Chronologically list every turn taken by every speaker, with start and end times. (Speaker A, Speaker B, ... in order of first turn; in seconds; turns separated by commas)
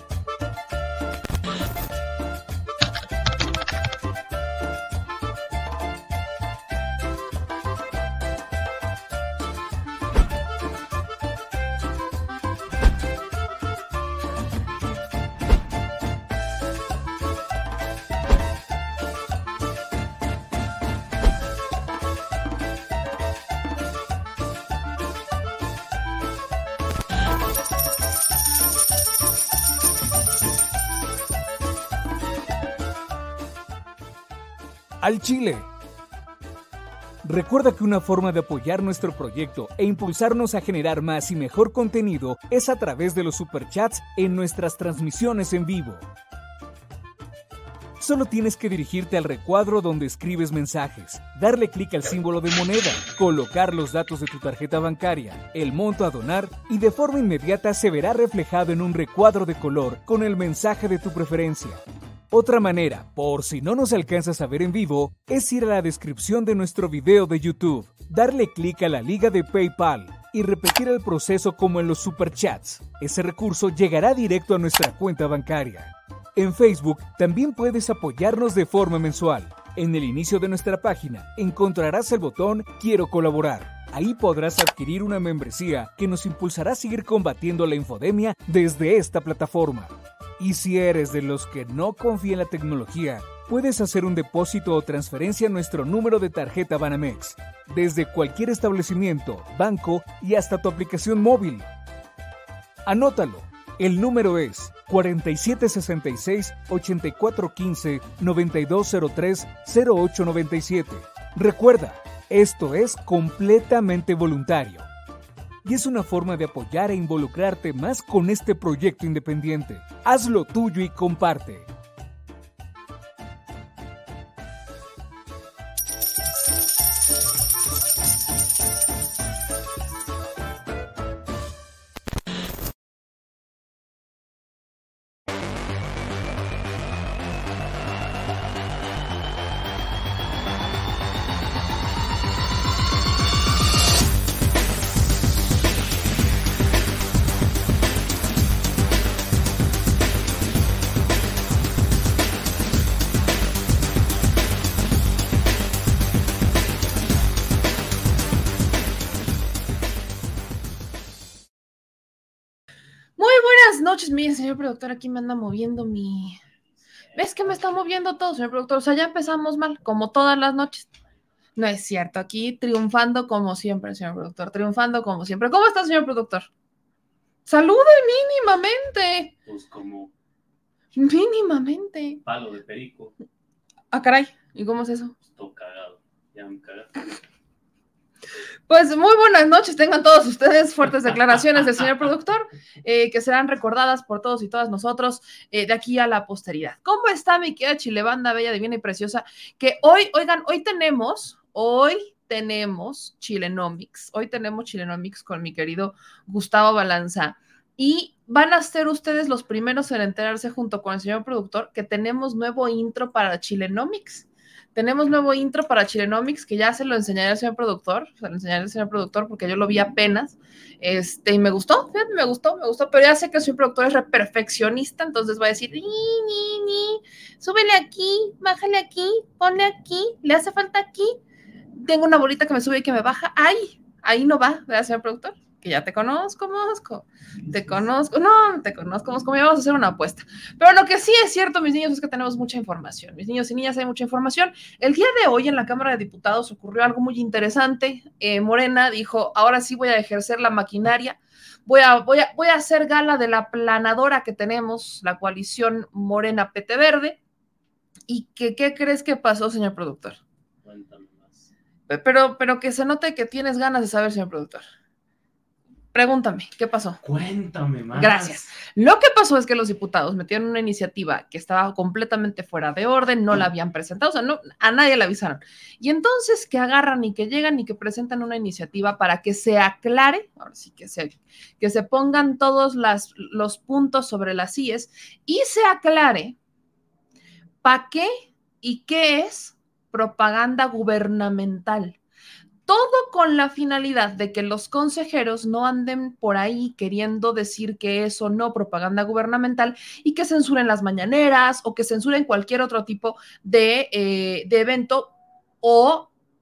Speaker A: 35.0-35.7, Speaker A: 37.2-46.1, Speaker A: 48.0-101.7, Speaker A: 102.8-114.9, Speaker A: 115.6-121.7, Speaker B: 163.2-166.4, Speaker B: 167.2-170.9, Speaker B: 171.6-176.5, Speaker B: 177.5-179.3, Speaker C: 179.4-180.1, Speaker B: 181.0-182.2, Speaker C: 182.2-183.1, Speaker B: 183.9-185.1, Speaker C: 185.3-187.2, Speaker B: 188.7-231.2, Speaker B: 231.8-257.2, Speaker C: 237.5-237.8, Speaker B: 258.1-260.2, Speaker C: 260.6-261.5, Speaker B: 261.9-264.6, Speaker B: 265.9-267.0, Speaker C: 267.0-268.4, Speaker B: 267.9-286.4, Speaker B: 287.6-292.0, Speaker B: 292.7-306.1